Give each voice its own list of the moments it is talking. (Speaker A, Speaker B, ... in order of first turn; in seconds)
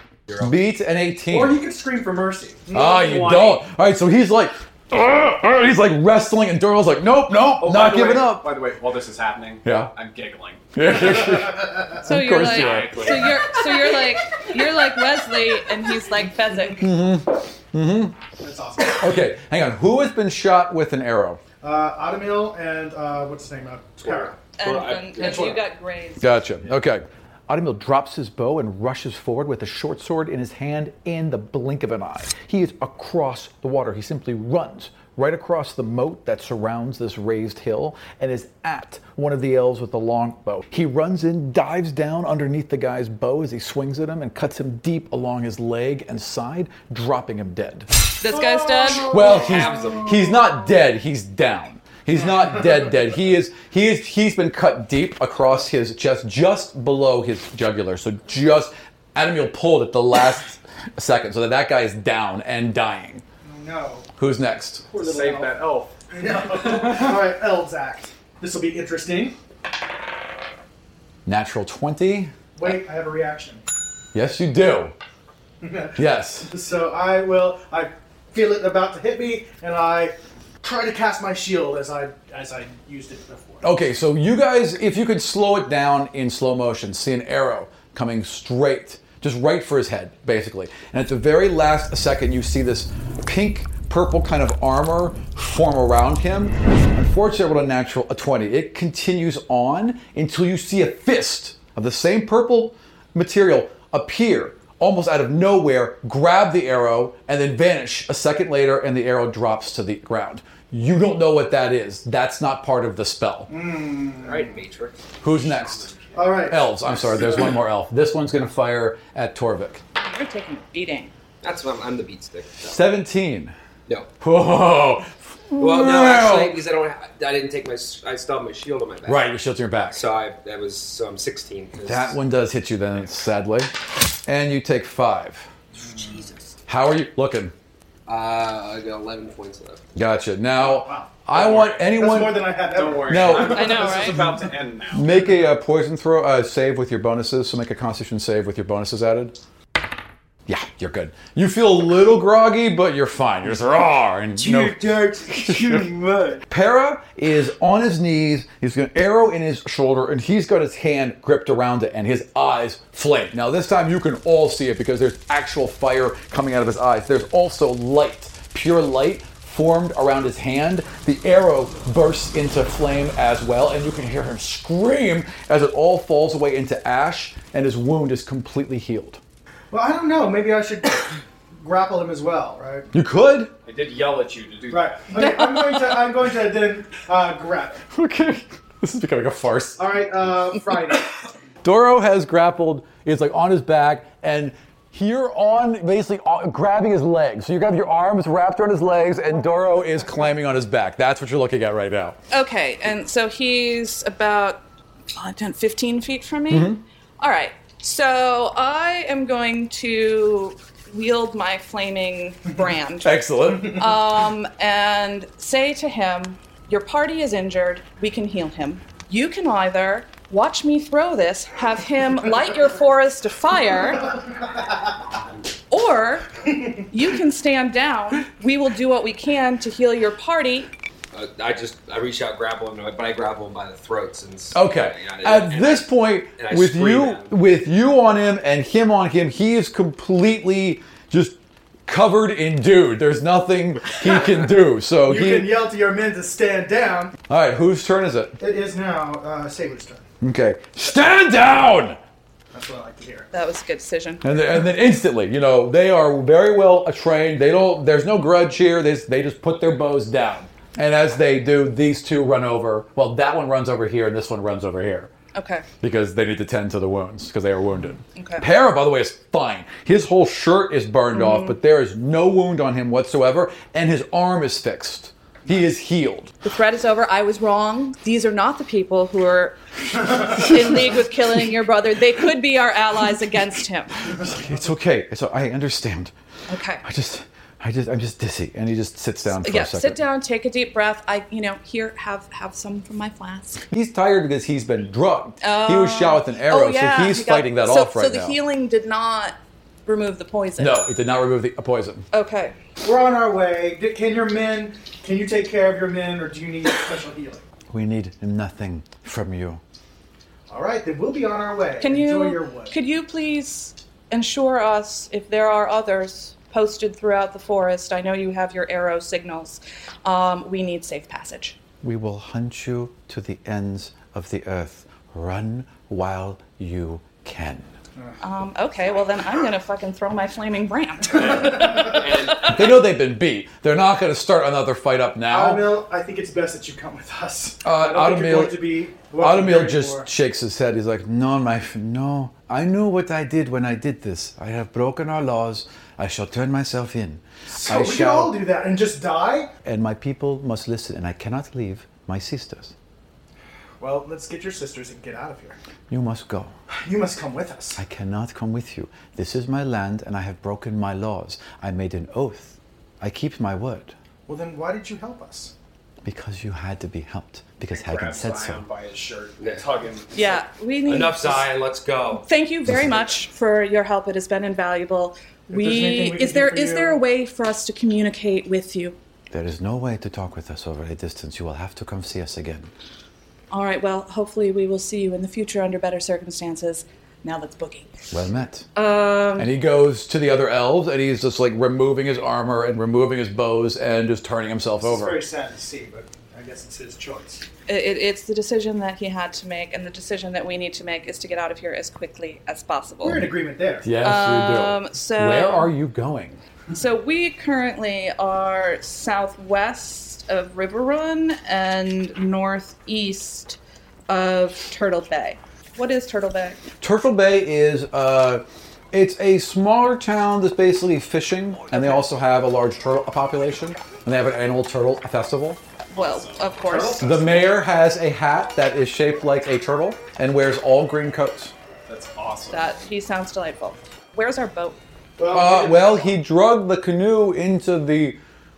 Speaker A: 0.4-1.6, 2.7-8.5, 9.6-9.9, 10.7-13.2, 16.8-18.2, 18.9-21.4, 26.2-47.9, 49.0-63.2, 64.2-64.9, 71.3-72.3, 74.1-74.9, 76.0-76.5, 83.6-113.5, 115.2-119.8, 122.6-123.5, 124.2-126.6, 129.1-130.0, 131.8-135.5, 136.7-137.5, 139.9-143.8, 144.9-149.3, 150.5-155.9, 156.5-179.2, 182.9-183.5, 187.9-189.8, 191.6-202.2, 206.5-206.8, 213.0-213.9, 234.5-241.4, 241.9-245.5, 247.3-248.4, 250.2-252.0, 254.2-265.1, 265.8-276.3, 284.2-286.1, 286.8-290.0, 293.7-298.4, 300.6-302.1, 307.7-309.6, 321.8-327.7, 332.5-335.7, 337.6-348.4, 349.6-352.7, 355.9-356.5, 357.8-363.9, 366.1-368.6, 379.3-382.7, 388.1-388.7, 389.4-395.2, 403.8-406.4, 416.8-425.6, 427.0-431.5, 435.3-438.2
Speaker B: 1.3-3.6, 11.6-11.8, 18.4-19.3, 21.6-24.4, 25.2-25.5, 48.3-50.1, 63.4-64.1, 64.9-69.4, 72.6-73.6, 75.6-83.6, 113.5-114.5, 116.1-116.8, 135.8-136.2, 140.6-144.5, 154.6-156.4, 179.7-182.9, 184.7-187.8, 189.8-191.1, 245.0-247.2, 248.4-250.1, 252.5-253.3, 302.8-307.4, 310.5-312.8, 335.3-340.1, 347.5-349.5, 353.8-355.6, 356.7-357.8, 364.3-365.5, 375.5-377.0, 394.8-397.4, 403.0-403.9, 426.7-427.0, 435.2-436.1
Speaker C: 7.6-10.7, 12.4-13.7, 24.1-25.5, 65.0-65.9, 66.6-66.9, 115.8-116.2, 141.3-141.8, 142.7-145.1, 154.4-154.8, 183.7-185.1, 367.7-370.4, 425.9-427.3, 431.9-432.7
Speaker D: 12.0-16.9, 24.6-26.3, 48.2-49.2, 120.0-121.1, 143.4-144.2, 202.3-204.6, 205.2-224.1, 225.7-226.3, 226.8-230.7, 253.3-254.3, 265.3-265.7, 268.1-268.5, 271.1-271.6, 276.4-284.1, 286.5-286.8, 289.4-293.6, 295.4-300.9, 302.1-302.6, 311.8-321.6, 328.2-332.8, 370.1-371.4, 372.2-379.0, 383.5-387.9, 388.8-389.5, 397.7-403.3, 404.0-405.7, 406.7-413.6, 414.1-416.6, 425.9-427.1, 432.5-434.8
Speaker E: 48.9-50.3, 114.2-115.0, 121.4-122.8, 125.6-129.3, 129.9-132.2, 135.9-136.4, 138.1-139.8, 231.1-237.3, 331.2-332.5, 369.4-369.7, 370.9-372.3